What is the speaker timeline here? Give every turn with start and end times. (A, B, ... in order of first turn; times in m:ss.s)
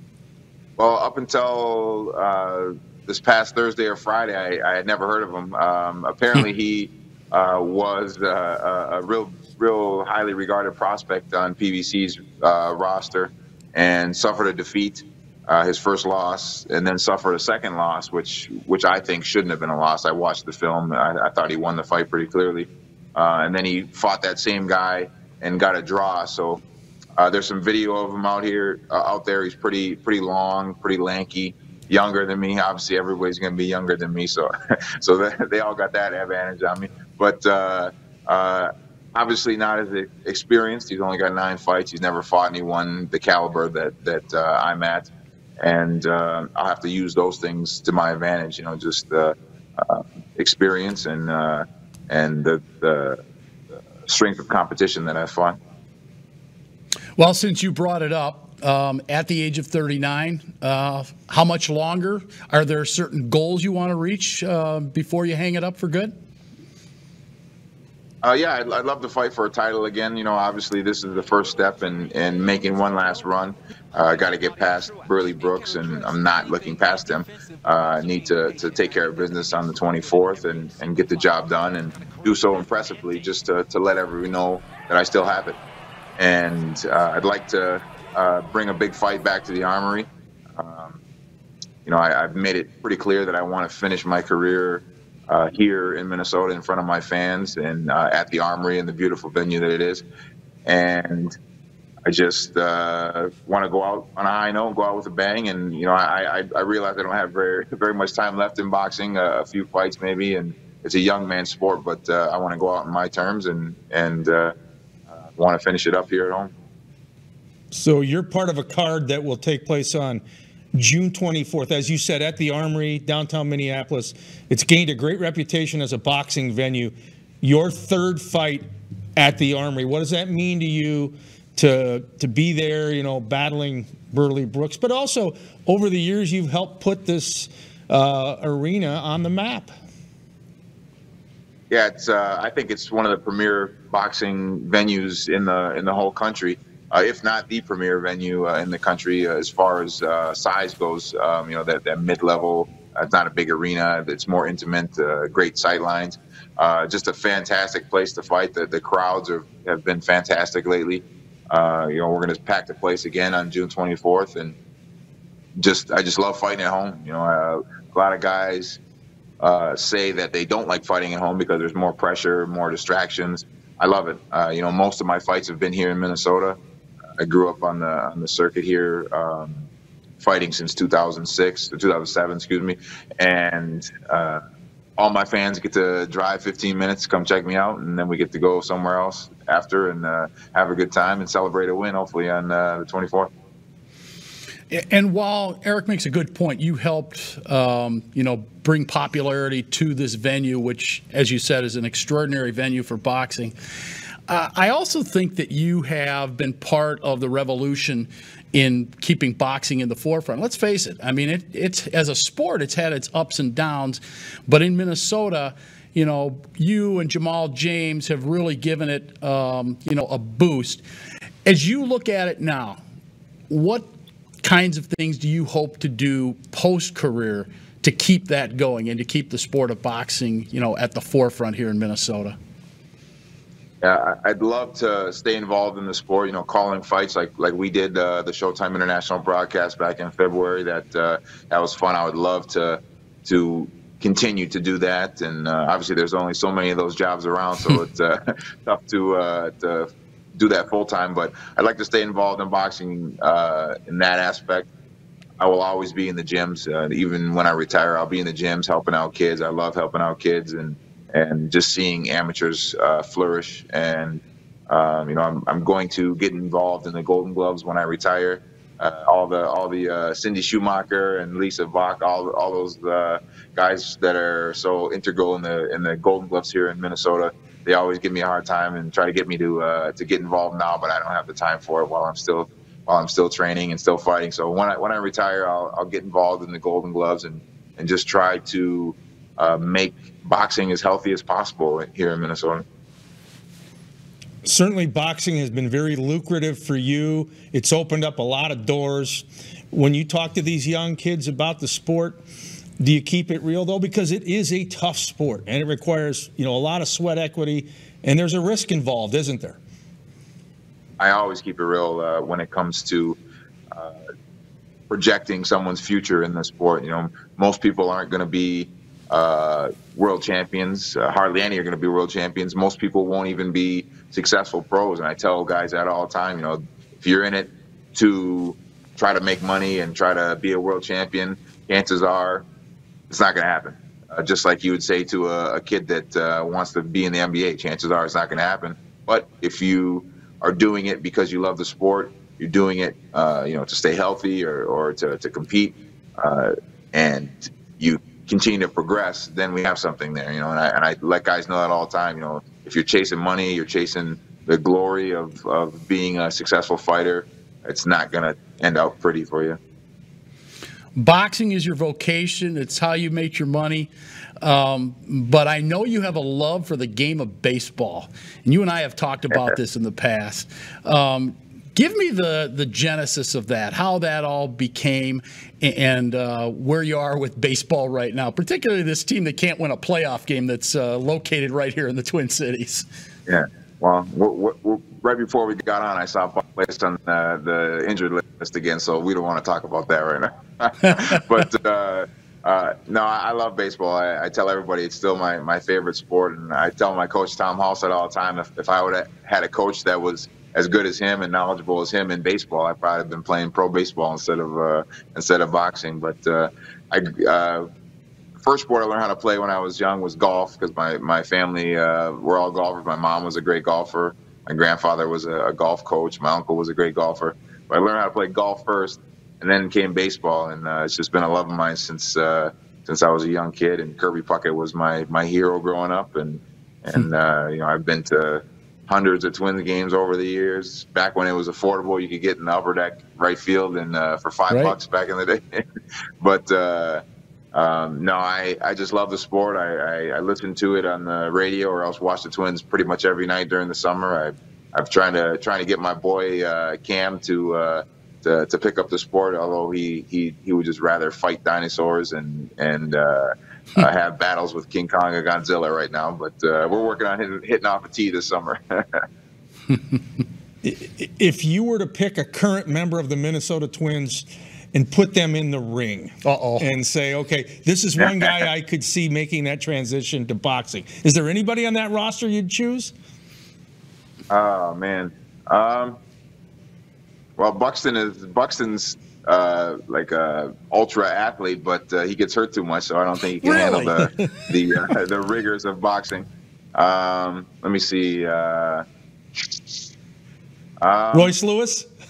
0:00.8-0:26.6 A
0:27.2-0:34.5 A
0:35.0-0:45.1 A
0:45.6-0:53.2 A
0:54.1-0:55.6 A
0:57.2-1:06.1 B
1:08.2-1:25.6 A
1:26.2-1:31.0 A
1:31.9-1:40.0 A
1:40.6-1:41.4 A
1:42.0-1:54.5 A
1:55.2-1:56.5 A
1:57.7-2:00.2 C
2:00.8-2:19.7 C
2:21.7-2:44.6 A
2:45.6-2:48.8 A
2:49.4-2:56.6 A
2:57.2-2:59.7 A
3:00.2-3:04.4 A
3:05.0-3:13.3 A
3:14.7-3:23.6 B
3:24.3-3:40.8 B
3:41.4-3:42.8 B
3:43.5-3:43.9 B
3:44.4-3:52.4 B
3:53.8-4:14.7 A
4:15.4-4:52.6 A
4:54.4-5:02.2 C
5:02.8-5:09.6 C
5:11.0-5:13.2 A
5:14.9-5:32.4 A
5:33.1-5:59.6 A
6:01.0-6:22.9 B
6:23.3-6:47.7 A
6:30.8-6:31.2 B
6:48.4-7:15.6 A
7:14.5-7:14.8 B
7:16.2-7:17.0 A
7:17.5-7:39.0 A
7:40.6-7:52.9 C
7:46.2-7:46.7 B
7:54.3-7:56.0 A
7:57.4-8:08.8 A
8:03.4-8:03.9 B
8:10.8-8:11.3 A
8:11.1-8:11.9 C